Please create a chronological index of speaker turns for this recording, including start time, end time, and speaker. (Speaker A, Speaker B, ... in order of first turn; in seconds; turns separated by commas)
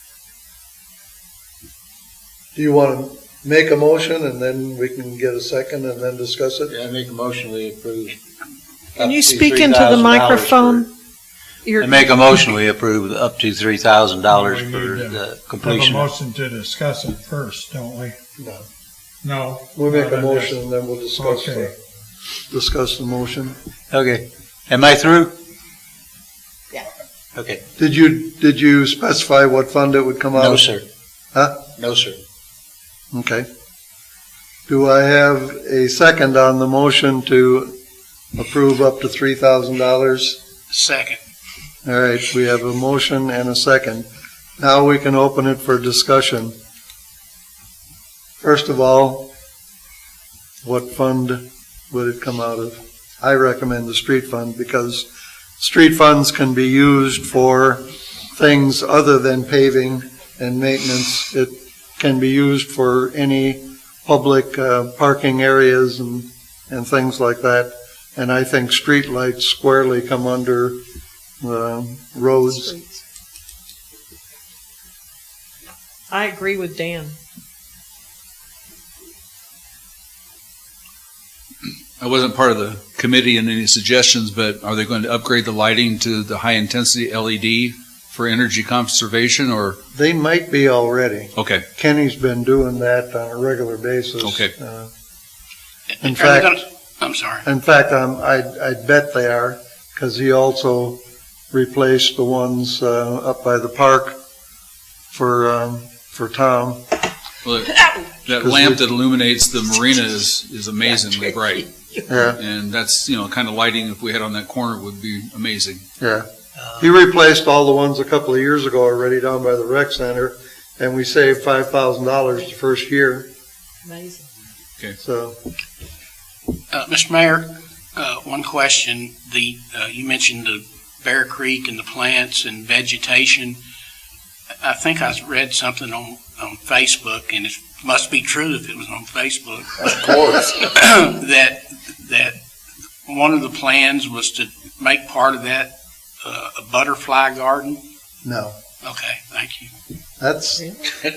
Speaker A: 2.5-6.7, Speaker B: 6.7-8.2, Speaker B: 8.9-10.9, Speaker C: 9.0-10.9, Speaker C: 11.6-12.2, Speaker B: 11.8-16.1, Speaker D: 14.3-18.2, Speaker A: 18.4-18.7, Speaker D: 19.2-20.6, Speaker A: 19.8-21.8, Speaker D: 21.2-21.7, Speaker A: 22.5-23.6, Speaker B: 23.9-25.4, Speaker B: 27.4-27.6, Speaker A: 27.8-30.6, Speaker B: 30.3-30.9, Speaker A: 31.3-31.6, Speaker B: 31.8-32.2, Speaker A: 33.1-33.5, Speaker A: 34.7-37.7, Speaker A: 38.3-40.4, Speaker E: 40.7-41.2, Speaker A: 41.8-44.1, Speaker A: 44.6-46.5, Speaker A: 48.4-49.3, Speaker A: 50.6-55.1, Speaker A: 55.6-57.8, Speaker A: 58.4-70.8, Speaker A: 71.4-72.7, Speaker C: 72.5-73.0, Speaker C: 76.1-77.2, Speaker F: 82.0-89.8, Speaker A: 89.9-94.9, Speaker F: 91.4-91.6, Speaker F: 94.2-94.5, Speaker E: 96.0-97.4, Speaker A: 96.0-96.6, Speaker A: 97.4-104.2, Speaker A: 105.1-106.9, Speaker F: 107.4-115.9, Speaker A: 108.3-108.8, Speaker A: 112.1-112.4, Speaker A: 116.0-116.2, Speaker A: 116.8-123.3, Speaker C: 123.9-124.3, Speaker A: 125.0-125.4, Speaker E: 126.7-133.6, Speaker E: 134.6-142.4, Speaker E: 143.1-145.7, Speaker E: 146.2-147.8, Speaker A: 148.2-148.6, Speaker E: 148.8-149.7, Speaker A: 150.2-150.6